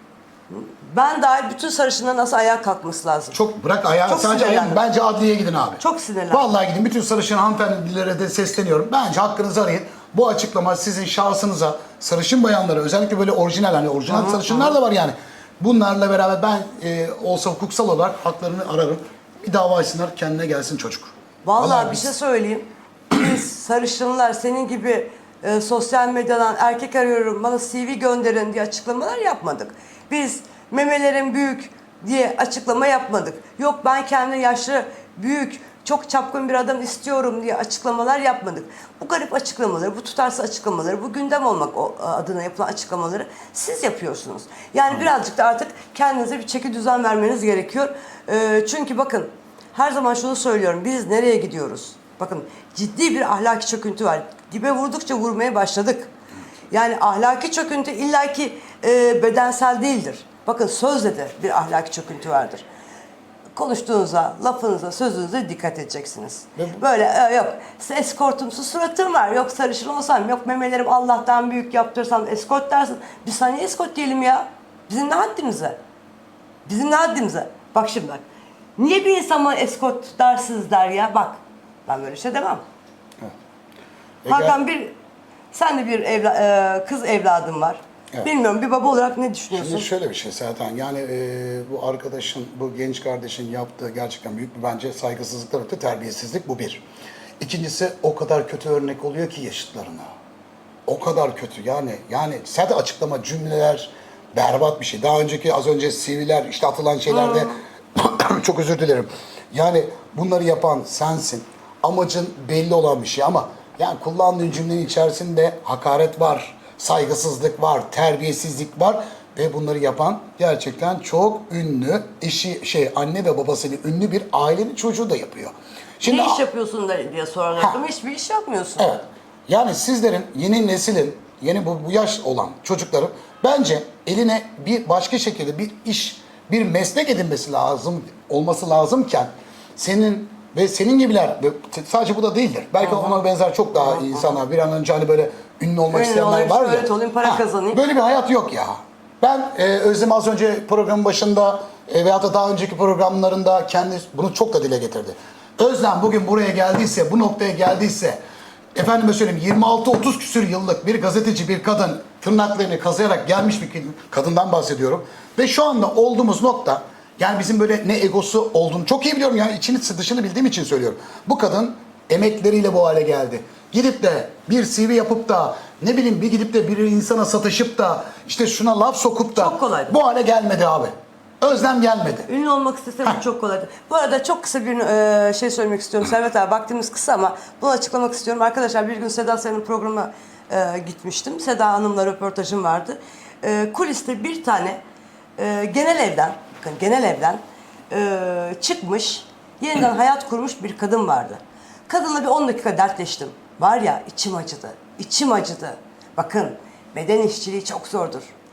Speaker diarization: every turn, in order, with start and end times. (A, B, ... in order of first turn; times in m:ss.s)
0:00.5-0:03.4 A
0:03.3-0:22.1 B
0:04.1-0:04.8 A
0:05.8-0:06.5 A
0:14.1-0:14.8 A
0:21.4-0:56.1 A
0:56.7-1:02.6 A
1:03.6-1:15.8 A
1:16.7-1:18.2 A
1:18.8-1:22.6 A
1:24.2-1:24.6 B
1:24.3-1:24.9 A
1:25.5-1:29.9 A
1:29.5-1:36.8 B
1:37.4-1:40.1 B
1:40.9-2:06.4 B
1:47.1-1:47.6 A
2:06.0-2:09.0 A
2:08.8-2:38.2 B
2:23.8-2:24.3 A
2:25.9-2:27.8 A
2:38.8-3:02.3 B
2:59.3-3:00.0 A
3:02.2-3:14.8 A
3:15.4-3:28.3 A